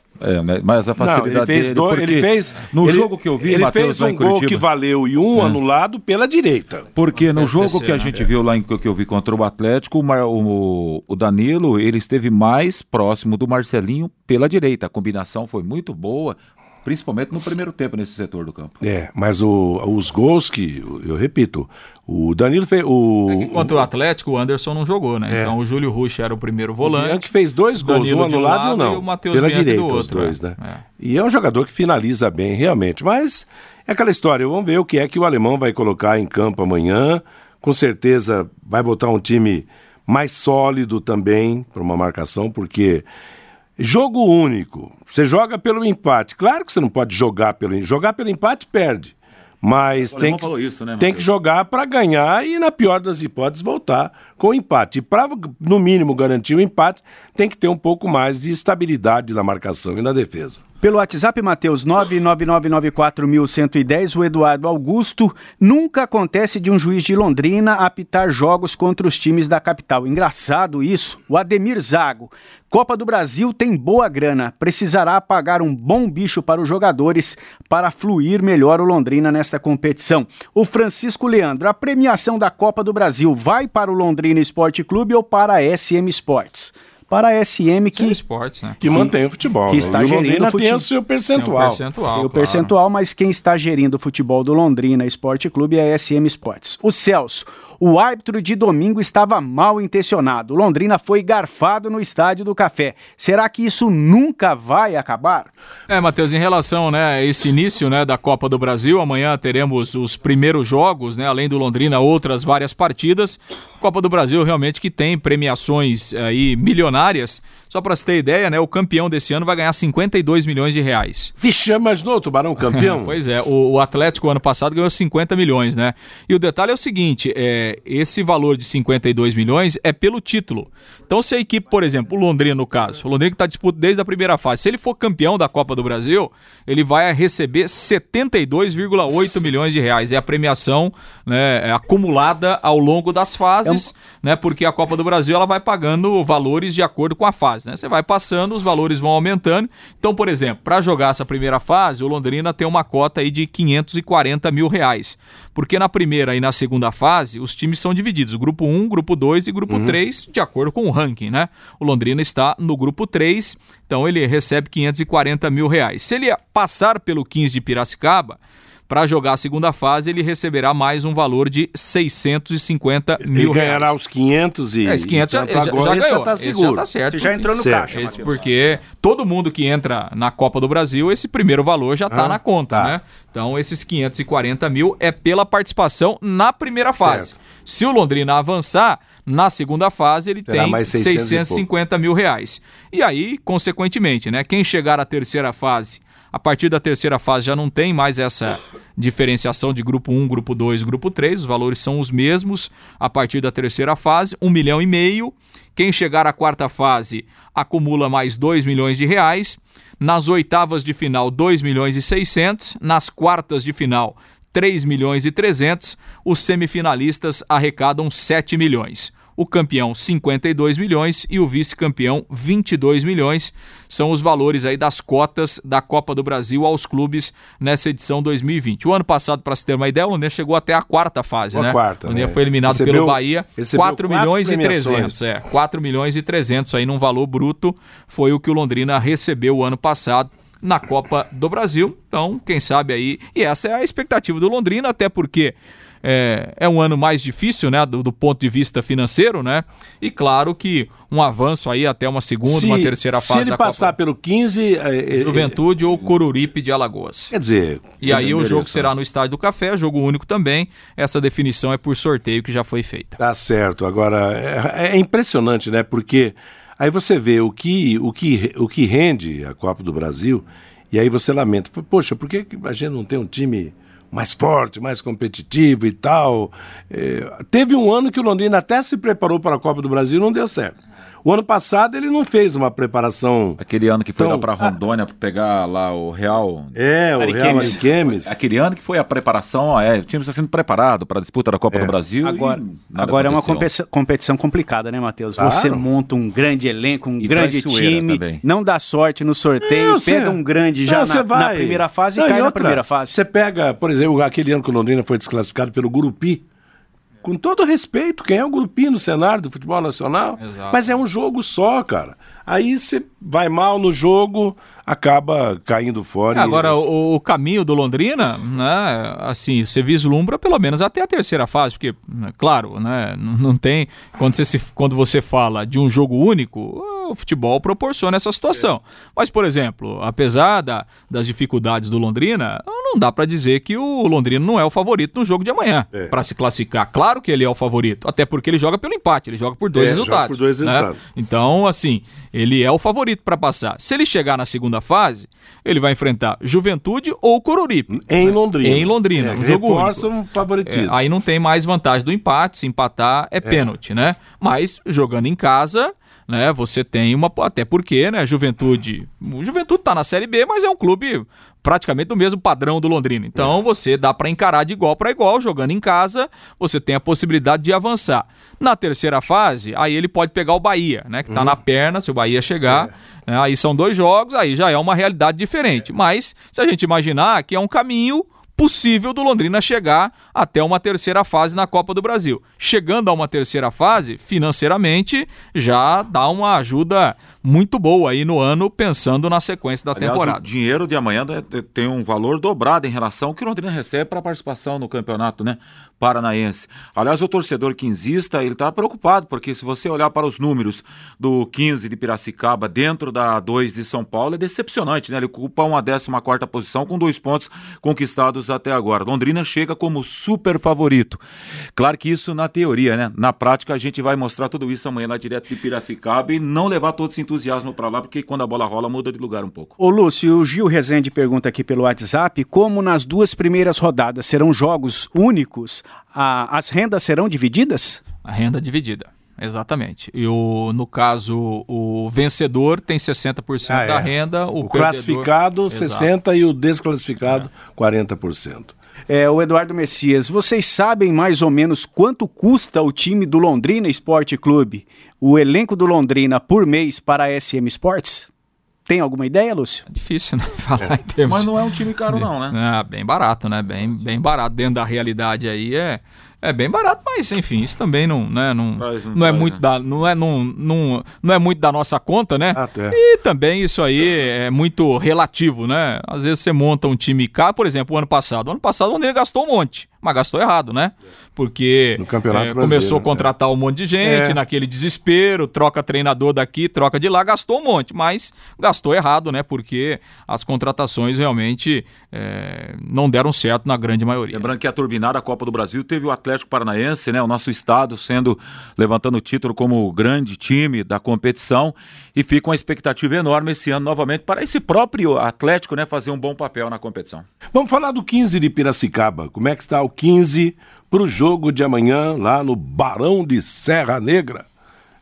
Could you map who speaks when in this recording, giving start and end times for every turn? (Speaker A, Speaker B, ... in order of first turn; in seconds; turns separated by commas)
Speaker A: 0.2-4.6, Speaker B: 1.0-6.9, Speaker A: 7.0-18.8, Speaker C: 7.2-8.1, Speaker B: 18.8-23.8, Speaker C: 23.3-30.8, Speaker B: 25.3-25.5, Speaker B: 26.8-43.1, Speaker B: 43.8-60.6, Speaker A: 50.0-51.3, Speaker D: 60.8-88.2, Speaker C: 88.0-88.9, Speaker B: 88.8-91.8, Speaker D: 88.8-89.1, Speaker D: 89.7-90.9, Speaker C: 91.4-92.7, Speaker D: 92.2-105.5, Speaker C: 105.9-121.3, Speaker B: 121.4-123.2, Speaker C: 122.7-173.9, Speaker B: 159.7-160.0, Speaker B: 173.2-176.9, Speaker C: 174.8-253.9, Speaker D: 177.1-178.5, Speaker B: 177.6-178.1, Speaker B: 182.1-182.9, Speaker B: 187.0-187.3, Speaker B: 190.5-191.7, Speaker B: 231.5-235.2, Speaker B: 252.4-255.6, Speaker C: 255.1-257.3, Speaker B: 257.3-258.8, Speaker C: 258.0-263.2, Speaker A: 258.1-258.3, Speaker B: 263.2-283.6, Speaker A: 283.6-286.8, Speaker B: 284.2-284.7, Speaker B: 286.7-288.3, Speaker D: 287.2-287.8, Speaker A: 287.5-293.7, Speaker D: 292.2-303.1, Speaker B: 295.4-295.9, Speaker A: 297.2-298.4, Speaker B: 299.6-306.4, Speaker B: 307.2-316.8, Speaker C: 310.4-310.9, Speaker C: 316.3-350.1, Speaker B: 339.7-341.0, Speaker B: 347.9-351.0, Speaker C: 350.6-390.4, Speaker B: 371.3-371.6, Speaker A: 389.9-411.2, Speaker A: 411.8-419.7, Speaker D: 419.8-428.0, Speaker C: 428.2-436.1, Speaker B: 433.7-438.7, Speaker D: 439.1-448.3, Speaker D: 448.9-449.9, Speaker C: 449.9-451.5, Speaker A: 451.3-452.6, Speaker C: 452.1-484.4, Speaker A: 458.8-459.6, Speaker B: 462.5-463.0, Speaker B: 472.0-473.3, Speaker B: 474.0-474.4, Speaker A: 484.3-497.3, Speaker B: 497.5-504.5